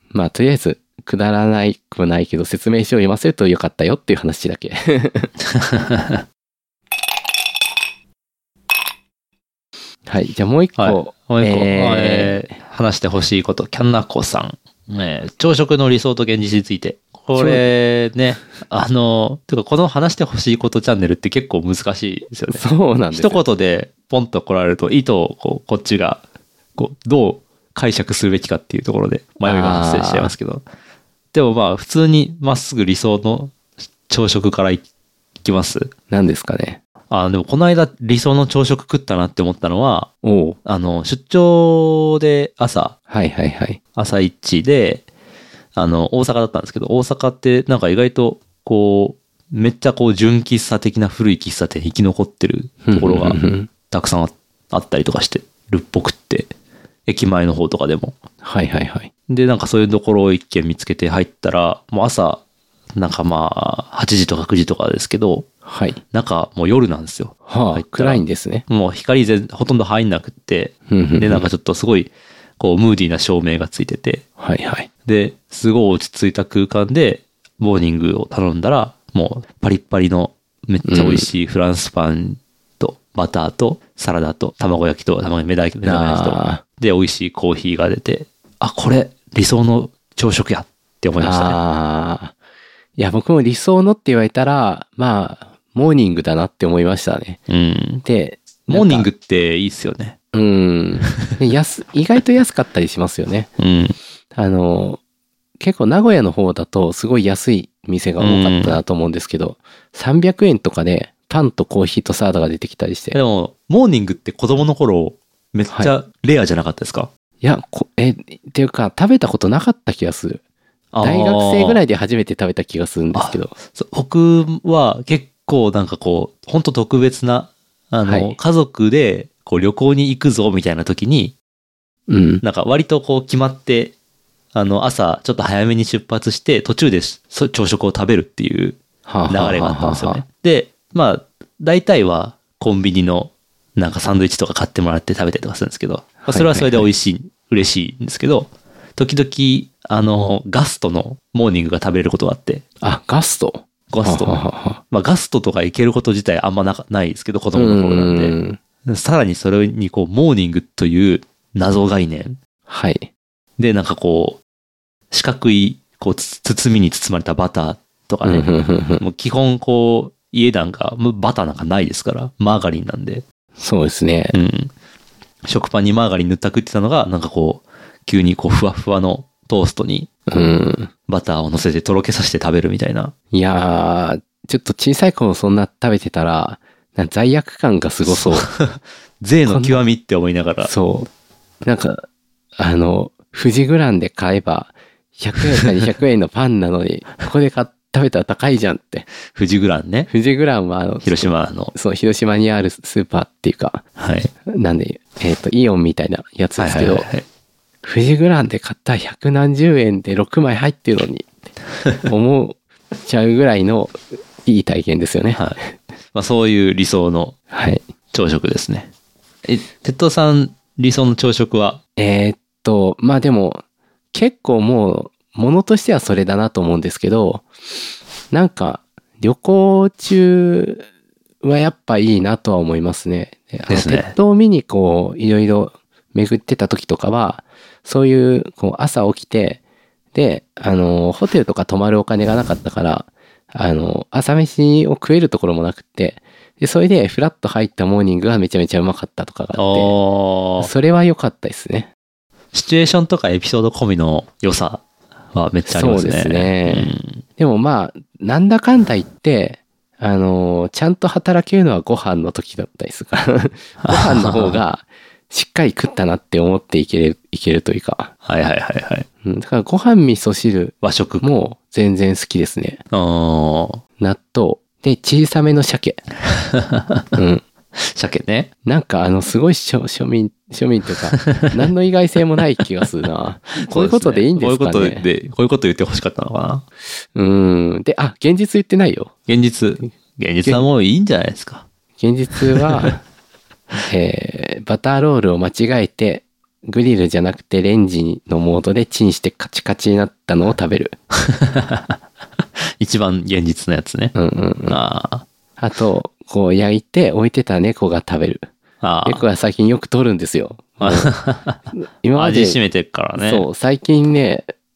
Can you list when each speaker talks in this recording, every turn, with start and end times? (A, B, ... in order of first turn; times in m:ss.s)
0:00.1-0:05.3 A
0:05.5-0:06.2 B
0:10.1-0:12.4 A
0:10.8-0:26.2 B
0:17.4-0:17.6 A
0:22.5-0:23.4 A
0:26.8-0:30.6 B
0:29.4-0:30.3 A
0:31.3-0:33.5 B
0:34.1-0:34.8 B
0:35.4-0:35.9 B
0:36.1-0:36.8 A
0:37.1-0:40.1 B
0:40.2-0:40.6 A
0:40.6-0:43.0 B
0:43.1-0:43.8 A
0:44.0-0:45.0 B
0:45.8-0:56.5 B
0:52.8-0:53.7 A
0:57.1-0:58.2 B
0:58.4-0:59.1 A
0:59.3-1:02.4 B
1:03.0-1:05.5 B
1:05.6-1:06.0 A
1:06.1-1:14.2 B
1:07.5-1:08.6 A
1:10.9-1:11.5 A
1:14.4-1:14.9 A
1:15.0-1:31.6 B
1:20.8-1:21.3 A
1:25.8-1:26.6 A
1:31.2-1:32.3 A
1:33.0-1:37.4 A
1:37.5-1:38.0 B
1:38.0-1:39.1 A
1:38.7-1:40.2 B
1:40.3-1:43.5 A
1:43.6-1:44.0 B
1:44.3-1:45.0 A
1:45.6-1:53.2 A
1:48.2-1:48.8 B
1:53.1-1:57.1 B
1:57.4-2:00.4 A
2:00.9-2:01.8 B
2:01.0-2:03.5 A
2:03.1-2:11.4 B
2:08.0-2:08.4 A
2:12.1-2:12.4 A
2:12.4-2:13.9 B
2:14.5-2:32.6 B
2:19.0-2:20.2 A
2:26.3-2:26.9 A
2:32.8-2:34.8 A
2:33.9-2:42.4 B
2:37.5-2:38.6 A
2:42.7-2:43.1 A
2:43.6-2:44.4 B
2:45.1-2:53.2 B
2:48.2-2:49.0 A
2:53.6-2:54.4 A
2:54.3-2:54.7 B
2:55.4-3:00.3 B
3:00.3-3:00.9 A
3:01.1-3:03.1 B
3:03.3-3:08.5 A
3:08.0-3:10.7 B
3:09.4-3:09.8 A
3:10.6-3:11.1 A
3:11.6-3:12.0 A
3:12.6-3:19.1 A
3:19.3-3:20.1 B
3:20.1-3:23.8 A
3:21.0-3:21.7 B
3:24.0-3:24.3 B
3:24.5-3:27.1 A
3:26.6-3:27.2 B
3:27.8-3:31.3 A
3:32.0-3:35.4 A
3:36.1-3:37.4 B
3:37.5-3:37.8 A
3:38.1-3:38.9 B
3:39.4-3:41.8 B
3:42.0-3:43.6 A
3:44.1-3:47.4 A
3:48.3-3:50.8 A
3:51.4-3:59.6 A
3:53.7-3:54.1 B
4:00.1-4:09.9 A
4:09.6-4:10.7 B
4:10.6-4:11.9 A
4:12.5-4:14.8 B
4:15.3-4:17.2 B
4:15.6-4:28.1 A
4:23.8-4:24.6 B
4:28.2-4:29.1 B
4:29.2-4:32.8 A
4:30.8-4:31.3 B
4:32.9-4:33.8 B
4:34.0-4:36.0 A
4:36.3-4:37.1 B
4:37.1-4:37.4 A
4:37.8-4:38.5 B
4:38.6-4:45.0 A
4:41.2-4:41.5 B
4:43.6-4:46.6 B
4:47.1-4:49.1 A
4:49.3-4:51.6 B
4:52.0-4:53.0 A
4:52.5-4:52.9 B
4:53.9-5:00.9 A
5:01.2-5:02.0 B
5:02.8-5:04.1 B
5:04.1-5:04.8 A
5:04.7-5:05.2 B
5:05.6-5:08.5 A
5:08.8-5:09.2 B
5:09.0-5:11.1 A
5:10.8-5:11.6 B
5:11.7-5:12.6 A
5:12.1-5:13.5 B
5:13.2-5:14.5 A